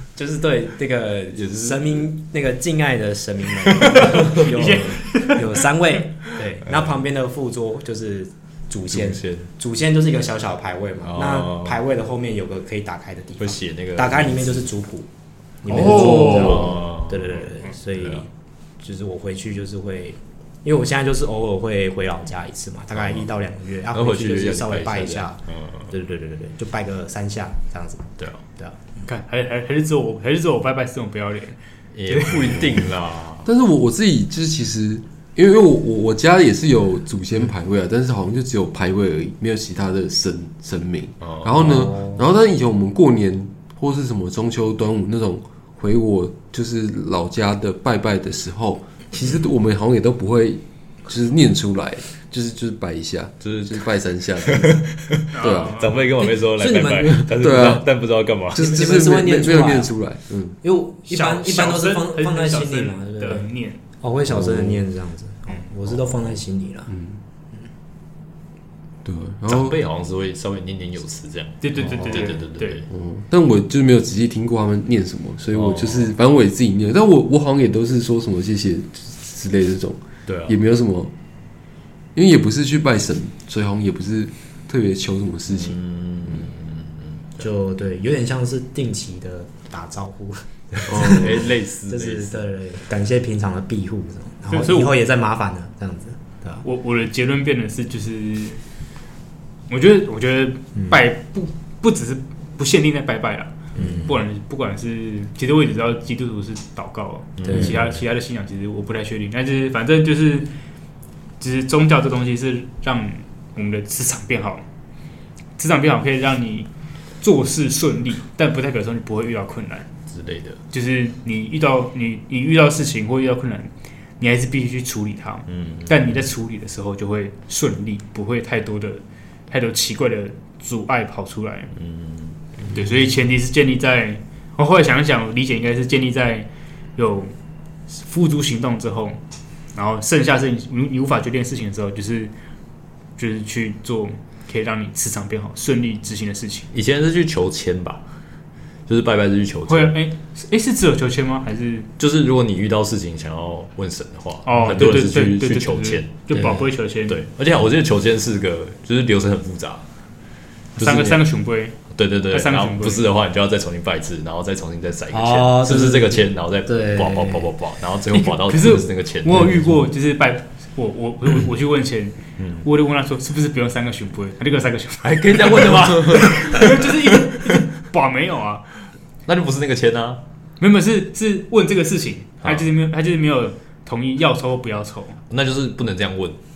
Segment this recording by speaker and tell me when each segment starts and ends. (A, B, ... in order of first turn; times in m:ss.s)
0:00.1-0:15.1 A
0:01.3-0:02.1 B
0:04.0-0:05.6 C
0:06.6-0:06.9 B
0:08.9-0:09.5 B
0:11.0-0:11.8 B
0:13.4-0:14.7 B
0:15.6-0:18.3 A
0:15.7-0:16.6 C
0:15.7-0:18.2 B
0:18.8-0:28.8 A
0:22.9-0:23.3 B
0:23.9-0:25.9 B
0:29.0-0:31.6 C
0:31.9-0:33.5 B
0:32.1-0:32.7 C
0:33.4-0:55.8 D
0:41.2-0:41.5 B
0:41.6-0:42.2 A
0:53.4-0:53.9 B
0:54.4-0:58.8 B
0:55.3-0:56.0 C
0:56.2-0:57.3 A
0:57.3-0:57.9 D
0:58.5-1:00.6 D
0:58.6-0:59.9 A
1:00.6-1:06.9 A
1:01.0-1:03.8 C
1:04.2-1:04.8 D
1:06.9-1:07.2 D
1:09.0-1:09.8 D
1:09.5-1:12.9 B
1:11.6-1:12.8 C
1:11.8-1:12.3 A
1:12.9-1:21.1 D
1:15.5-1:16.1 B
1:20.2-1:20.6 B
1:22.1-1:25.8 D
1:25.5-1:27.4 B
1:27.4-1:36.6 A
1:30.9-1:31.5 D
1:31.0-1:32.4 B
1:34.5-1:35.0 C
1:36.6-1:38.6 C
1:39.7-1:50.5 C
1:43.7-1:44.2 A
1:47.4-1:47.9 B
1:47.5-1:47.8 A
1:51.4-1:54.6 C
1:55.6-1:56.7 C
1:57.2-1:59.9 C
2:00.1-2:00.6 B
2:00.7-2:11.7 C
2:05.5-2:06.2 B
2:11.8-2:12.4 B
2:12.7-2:17.3 C
2:17.9-2:19.2 C
2:19.7-2:22.3 C
2:23.2-2:26.7 C
2:26.7-2:28.0 B
2:28.9-2:29.9 B
2:29.7-2:31.9 C
2:32.0-2:36.2 B
2:34.4-2:37.2 C
2:36.3-2:36.7 A
2:37.1-2:39.8 B
2:40.8-2:41.8 C
2:40.8-2:41.2 B
2:41.9-2:49.6 B
2:42.3-2:43.1 C
2:45.1-2:47.5 A
2:48.1-2:58.6 C
2:52.4-2:52.7 B
2:55.0-2:57.5 B
2:59.2-3:00.2 B
3:00.6-3:05.2 C
3:02.4-3:02.7 B
3:05.3-3:06.4 B